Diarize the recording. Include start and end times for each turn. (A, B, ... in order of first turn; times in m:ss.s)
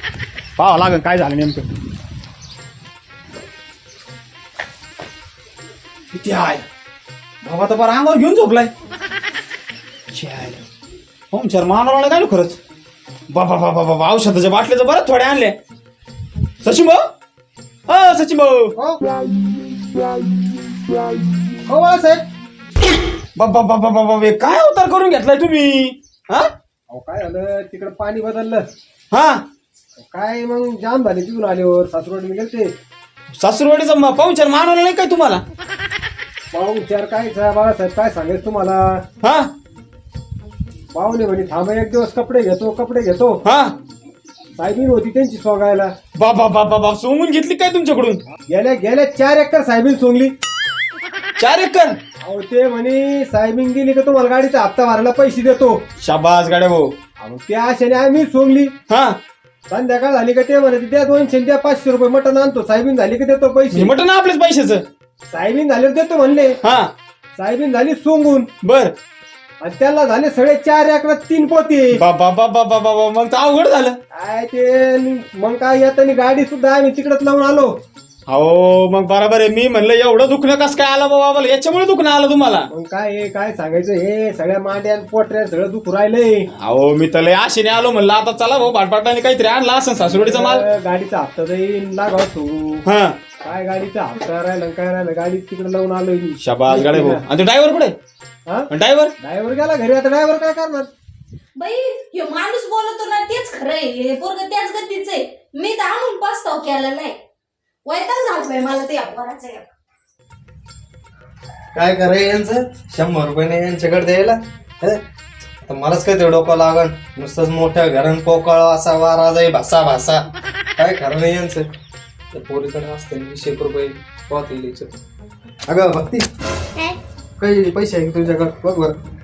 0:00.6-0:01.6 A
0:06.1-0:06.7 A
0:07.4-0:08.7 A
0:10.1-0:10.6 A
0:11.3-0:12.6 A
0:13.3-0:15.6 A
0:16.6-0:17.0 A
0:17.9-0:18.7 A
0:21.7-0:22.2 B
0:23.4-0:26.5 A
0:26.9-0:28.7 B
0:29.1-0:29.4 A
0:30.0-0:32.7 B
0:33.4-0:35.4 A
0:36.5-0:39.0 B
0:39.2-0:39.5 A
0:40.9-0:43.4 B
0:43.4-0:43.8 A
0:44.6-0:45.9 B
0:46.2-0:48.2 A
0:48.5-0:50.3 B
0:51.4-0:52.0 A
0:52.2-0:55.8 B
0:56.0-0:56.9 A
0:57.2-0:58.7 B
0:58.9-0:59.2 A
0:59.7-1:03.9 B
1:03.7-1:04.8 A
1:05.3-1:06.6 B
1:06.6-1:06.9 A
1:07.4-1:08.5 B
1:08.6-1:09.0 A
1:09.6-1:12.0 B
1:11.9-1:14.0 A
1:14.1-1:17.7 B
1:18.3-1:22.7 A
1:22.7-1:26.5 B
1:26.6-1:30.7 A
1:30.0-1:32.8 B
1:32.9-1:33.2 A
1:33.4-1:37.2 B
1:36.4-1:38.0 A
1:38.7-1:39.2 A
1:39.2-1:40.9 B
1:41.6-1:47.2 C
1:47.9-1:49.7 C
1:51.7-1:55.0 D
1:55.6-2:00.3 D
2:00.8-2:01.7 D
2:02.3-2:04.9 D
2:05.7-2:06.3 D
2:07.4-2:09.0 D